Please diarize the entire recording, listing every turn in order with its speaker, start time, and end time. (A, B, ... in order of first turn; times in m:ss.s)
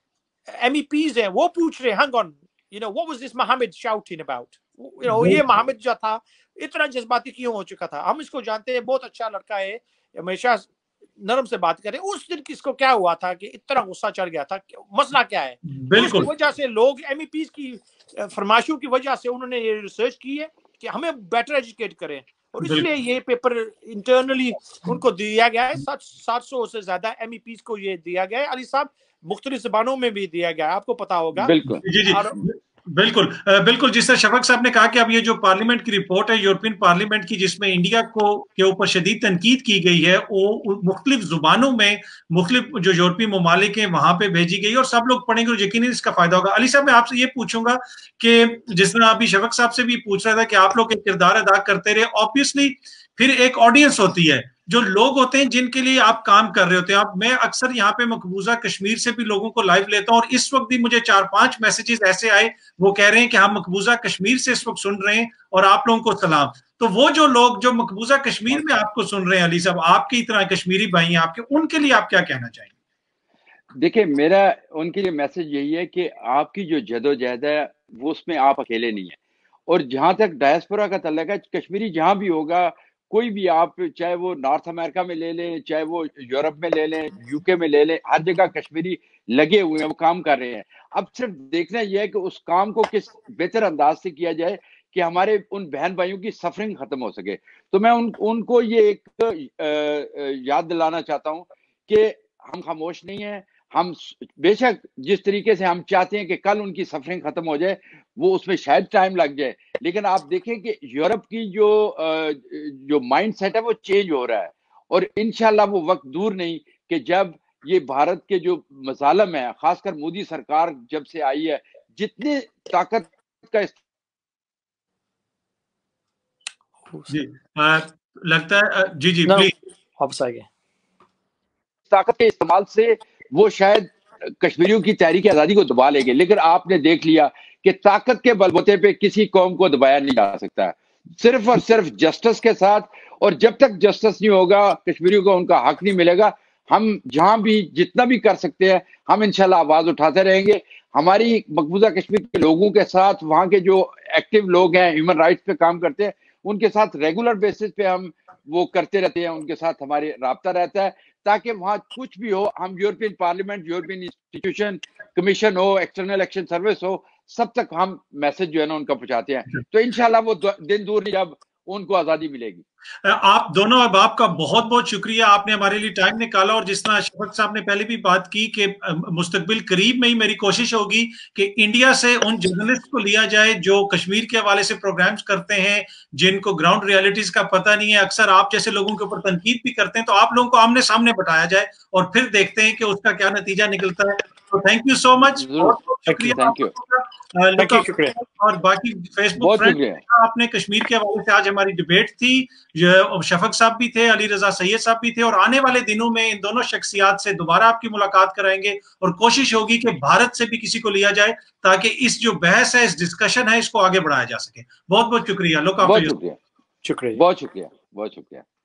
0:00.5-0:31.5 A
0:05.0-0:05.4 B
0:15.7-0:16.3 B
0:22.6-0:22.9 B
0:31.4-0:31.8 C
0:31.8-1:12.7 B
0:32.0-0:32.4 A
1:13.8-2:03.7 C
2:06.9-2:07.1 A
2:07.1-2:09.5 B
2:09.3-2:10.5 A
2:11.9-2:52.6 C
2:53.0-3:36.2 B
3:15.3-3:16.7 C
3:17.6-3:18.2 A
3:19.4-3:20.0 C
3:35.8-3:36.4 C
3:36.8-3:37.2 A
3:37.2-3:38.5 C